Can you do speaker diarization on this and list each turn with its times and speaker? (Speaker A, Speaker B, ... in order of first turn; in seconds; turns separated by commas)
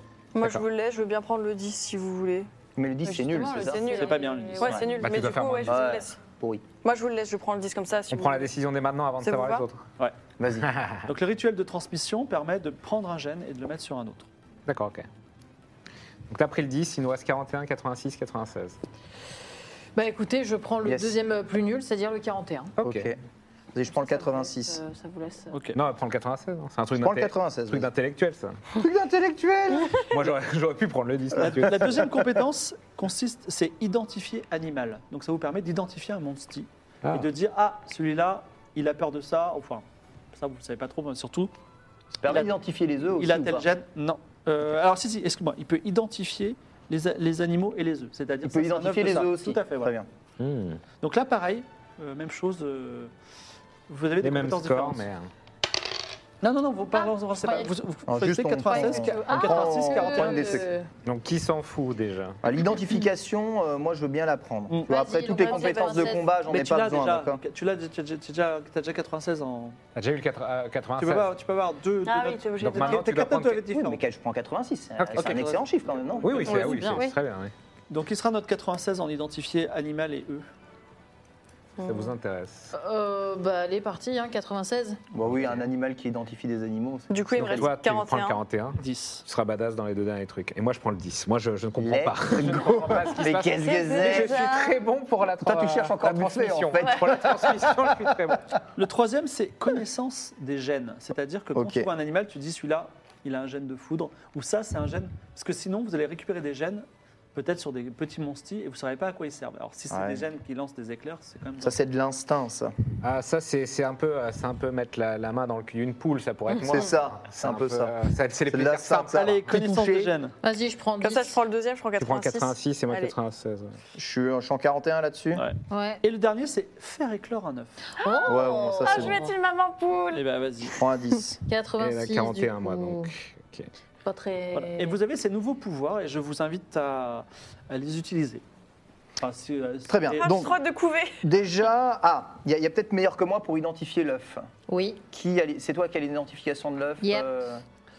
Speaker A: 0.3-2.5, Speaker B: 2.8-3.9, Speaker C: 3.0-5.2, Speaker A: 3.5-6.2, Speaker D: 3.9-4.8, Speaker E: 5.0-5.8, Speaker B: 5.6-6.6, Speaker A: 6.8-8.5, Speaker E: 8.1-9.8, Speaker A: 9.2-9.6, Speaker B: 10.4-10.7, Speaker E: 10.6-11.1, Speaker D: 11.1-14.3, Speaker E: 14.7-15.0, Speaker E: 16.3-18.8, Speaker C: 19.9-22.7, Speaker B: 20.8-21.2, Speaker E: 22.8-23.1, Speaker B: 22.8-23.2, Speaker B: 23.7-24.8, Speaker C: 23.9-25.6, Speaker D: 25.5-25.8, Speaker E: 25.7-28.6, Speaker B: 27.0-27.9, Speaker B: 28.7-30.2, Speaker E: 30.1-32.1, Speaker D: 31.3-41.5, Speaker B: 42.2-43.7, Speaker D: 43.1-49.9, Speaker B: 48.4-50.1, Speaker E: 50.4-50.8, Speaker D: 51.0-53.1, Speaker D: 53.9-55.1, Speaker E: 54.2-55.3, Speaker D: 56.4-60.6, Speaker C: 56.9-57.7, Speaker B: 58.1-60.6, Speaker C: 58.6-60.9, Speaker E: 61.0-62.4, Speaker B: 62.4-67.4, Speaker D: 64.7-64.9, Speaker C: 64.9-66.2, Speaker A: 65.4-66.2, Speaker D: 66.5-69.8, Speaker E: 69.9-71.3, Speaker D: 71.0-74.0, Speaker A: 72.0-73.1, Speaker E: 72.6-73.7, Speaker B: 73.7-76.6, Speaker E: 75.0-75.5, Speaker D: 75.1-76.9, Speaker E: 76.2-77.5, Speaker C: 76.5-77.2, Speaker A: 76.5-76.8, Speaker D: 77.9-80.5, Speaker A: 81.8-82.1, Speaker E: 81.8-82.7, Speaker C: 82.7-85.0, Speaker B: 85.1-87.7, Speaker E: 85.3-85.6, Speaker A: 87.1-88.4, Speaker E: 87.4-98.6, Speaker D: 88.8-89.2, Speaker B: 91.8-94.4, Speaker A: 93.4-94.8, Speaker B: 95.4-98.4, Speaker D: 98.8-111.8, Speaker B: 101.5-101.9, Speaker B: 109.9-110.3, Speaker B: 111.6-112.7, Speaker E: 113.0-119.5, Speaker B: 116.6-117.9, Speaker B: 118.5-120.1, Speaker D: 119.1-120.3, Speaker C: 120.4-121.4, Speaker A: 121.0-123.1, Speaker E: 122.0-123.8, Speaker B: 123.9-125.5, Speaker D: 125.3-127.8, Speaker C: 125.7-126.0, Speaker C: 128.0-129.3, Speaker A: 128.0-130.2, Speaker B: 128.3-129.2, Speaker D: 130.1-130.8, Speaker B: 130.8-131.4, Speaker C: 131.5-133.1, Speaker E: 131.8-133.7, Speaker C: 134.0-134.9, Speaker D: 134.5-138.4, Speaker D: 139.2-140.5, Speaker B: 139.9-140.6, Speaker A: 140.1-141.2, Speaker B: 141.2-144.5, Speaker C: 144.7-145.0, Speaker B: 145.1-147.6, Speaker C: 147.0-147.3